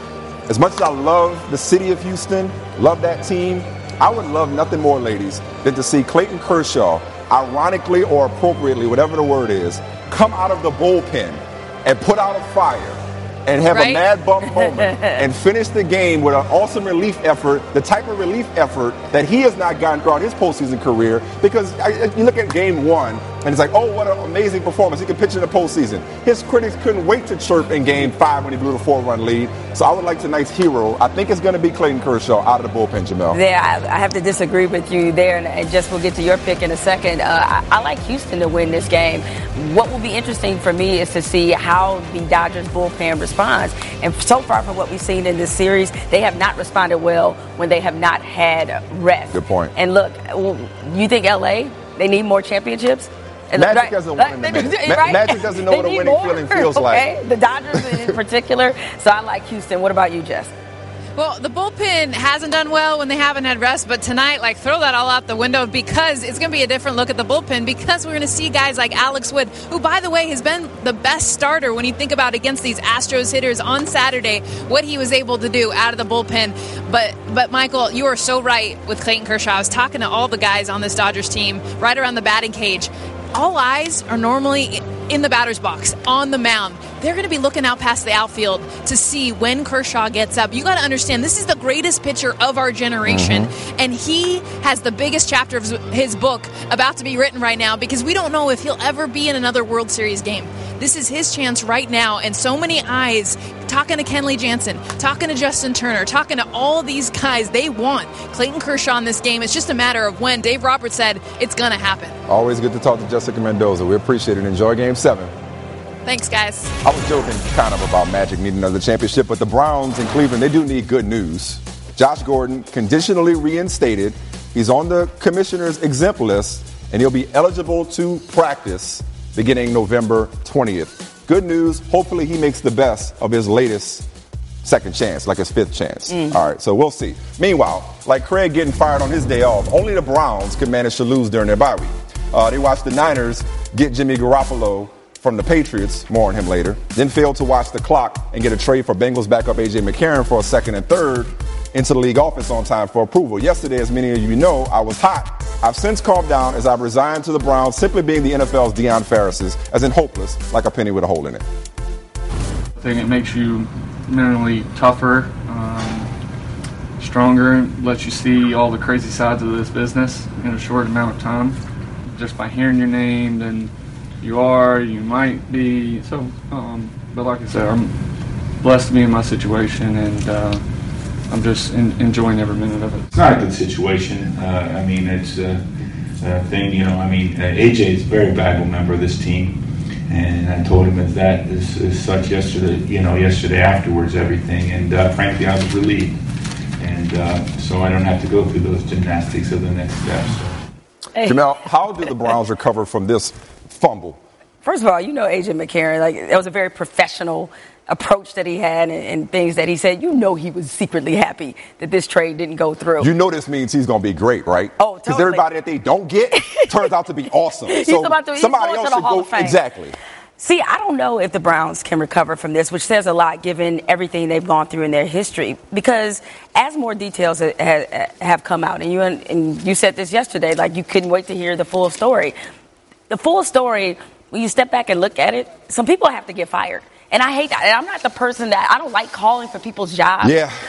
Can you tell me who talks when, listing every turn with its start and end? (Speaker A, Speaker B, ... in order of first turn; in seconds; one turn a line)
Speaker A: 0.5-33.4
Speaker B: 13.7-14.0
Speaker C: 14.4-15.2
Speaker C: 33.3-60.5
Speaker A: 49.3-49.7
Speaker A: 53.5-57.1
Speaker B: 61.1-112.2
Speaker A: 93.0-93.5
Speaker A: 112.3-115.3
Speaker B: 116.0-116.7
Speaker A: 116.8-134.0
Speaker A: 134.6-161.4
Speaker C: 136.1-136.3
Speaker D: 162.8-166.1
Speaker D: 167.0-171.6
Speaker D: 172.1-178.0
Speaker D: 178.6-180.7
Speaker D: 181.3-183.1
Speaker E: 183.1-185.7
Speaker E: 186.2-196.2
Speaker E: 196.8-200.6
Speaker A: 201.2-204.2
Speaker C: 204.6-213.1
Speaker A: 213.0-219.9
Speaker C: 214.8-215.4
Speaker C: 217.7-219.6
Speaker C: 220.4-232.3
Speaker C: 233.1-240.4
Speaker A: 240.2-240.5